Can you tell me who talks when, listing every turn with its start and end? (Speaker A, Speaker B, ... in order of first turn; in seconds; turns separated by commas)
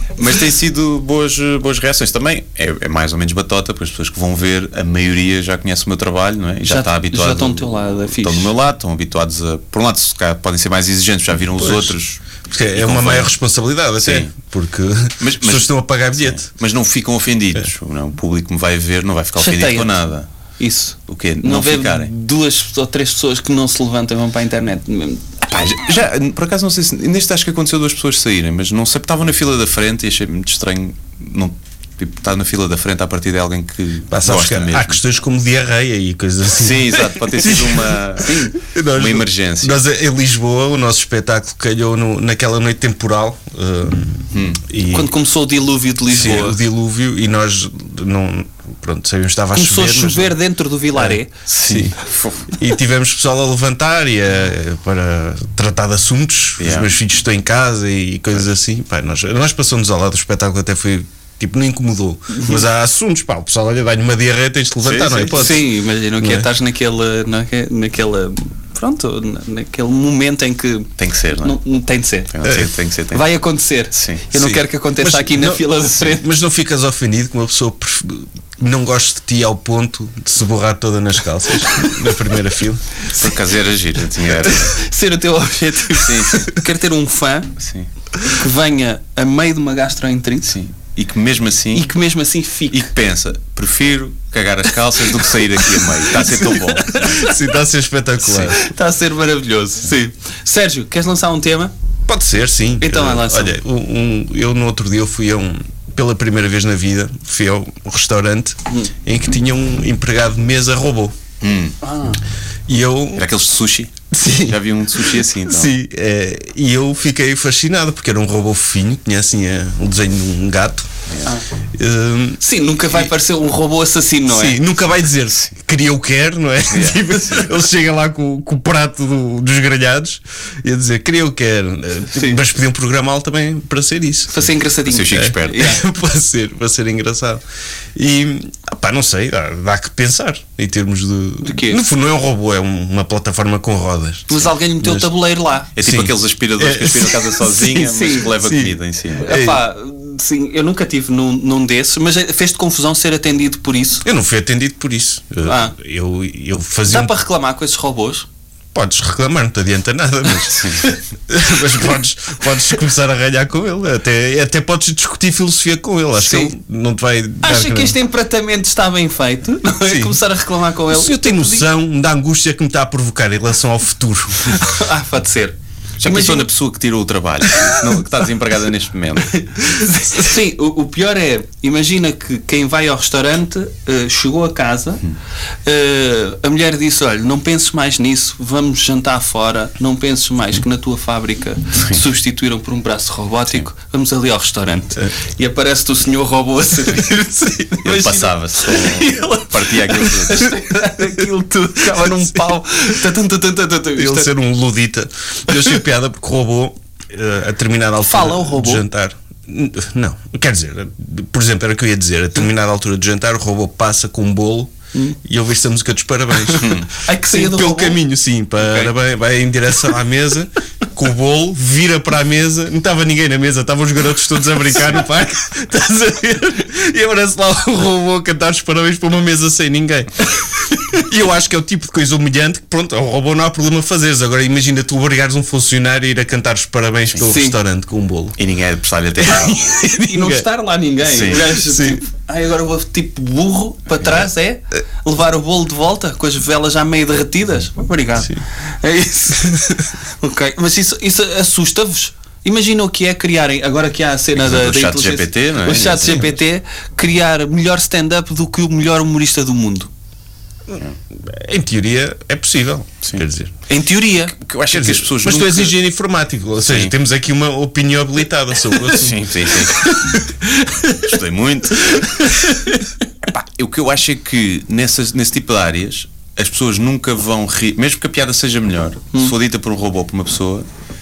Speaker A: 0.1-13.3, Speaker B: 6.6-8.5, Speaker C: 11.6-11.9, Speaker C: 12.5-16.4, Speaker A: 14.0-14.3, Speaker A: 15.2-20.3, Speaker B: 19.4-20.0, Speaker B: 20.6-25.3, Speaker A: 21.1-22.1, Speaker A: 25.5-35.0, Speaker C: 34.1-37.8, Speaker A: 36.5-39.8, Speaker B: 38.2-38.5, Speaker C: 38.6-45.1, Speaker A: 44.3-44.6, Speaker B: 44.9-46.6, Speaker C: 46.1-50.4, Speaker B: 49.5-51.3, Speaker C: 50.9-52.0, Speaker A: 51.5-52.6, Speaker C: 52.5-65.7, Speaker A: 56.6-56.9, Speaker B: 62.3-62.6, Speaker A: 64.8-65.6, Speaker B: 65.3-70.9, Speaker C: 66.2-66.5, Speaker A: 71.0-71.6, Speaker B: 71.4-72.3, Speaker A: 72.3-73.3, Speaker C: 72.4-72.7, Speaker B: 73.1-76.3, Speaker A: 73.9-74.2, Speaker C: 74.3-82.9, Speaker A: 83.1-84.8, Speaker B: 84.4-87.5, Speaker A: 86.0-86.5, Speaker A: 87.6-87.9, Speaker B: 88.2-90.6, Speaker A: 90.5-91.9, Speaker B: 91.7-92.9, Speaker A: 92.7-97.2, Speaker B: 95.8-97.3, Speaker C: 97.2-98.7, Speaker A: 98.2-98.5, Speaker B: 98.5-101.7, Speaker C: 102.1-111.2, Speaker B: 102.8-103.6, Speaker A: 111.4-111.8, Speaker B: 111.8-112.2, Speaker C: 112.7-113.3, Speaker A: 113.2-115.7, Speaker C: 114.1-120.9, Speaker C: 121.7-122.4, Speaker B: 122.4-124.6, Speaker C: 124.3-134.4, Speaker A: 126.7-127.5, Speaker B: 132.1-132.4, Speaker B: 134.3-135.8, Speaker A: 134.8-135.7, Speaker C: 135.1-137.4, Speaker C: 137.9-145.1, Speaker B: 141.4-141.8, Speaker B: 144.3-145.7, Speaker A: 145.7-149.4, Speaker C: 145.8-149.6, Speaker B: 147.7-148.3, Speaker B: 149.2-154.1, Speaker C: 154.0-157.1, Speaker B: 155.4-155.7, Speaker B: 156.9-158.2, Speaker C: 158.7-167.9, Speaker A: 160.3-160.9, Speaker B: 166.2-166.5, Speaker B: 167.4-171.7, Speaker C: 169.8-170.2, Speaker C: 170.9-174.7, Speaker B: 174.4-176.5, Speaker A: 176.0-179.4, Speaker B: 179.3-185.0, Speaker B: 185.6-204.3, Speaker A: 197.8-200.6, Speaker C: 203.9-214.7, Speaker B: 208.1-208.8, Speaker C: 215.2-230.3, Speaker A: 216.5-216.9, Speaker B: 216.5-218.0, Speaker B: 218.6-218.9, Speaker C: 230.9-238.4, Speaker B: 237.2-237.6, Speaker A: 238.4-239.8, Speaker B: 239.3-259.9, Speaker C: 240.0-240.4, Speaker A: 241.1-241.5, Speaker C: 241.4-242.0, Speaker A: 254.3-256.3, Speaker C: 260.7-263.5, Speaker B: 263.7-264.3, Speaker A: 264.3-265.8, Speaker C: 264.7-269.2, Speaker A: 266.7-266.9, Speaker A: 268.9-270.1, Speaker B: 269.7-271.0, Speaker A: 270.9-272.3, Speaker B: 271.8-272.8, Speaker A: 273.3-280.7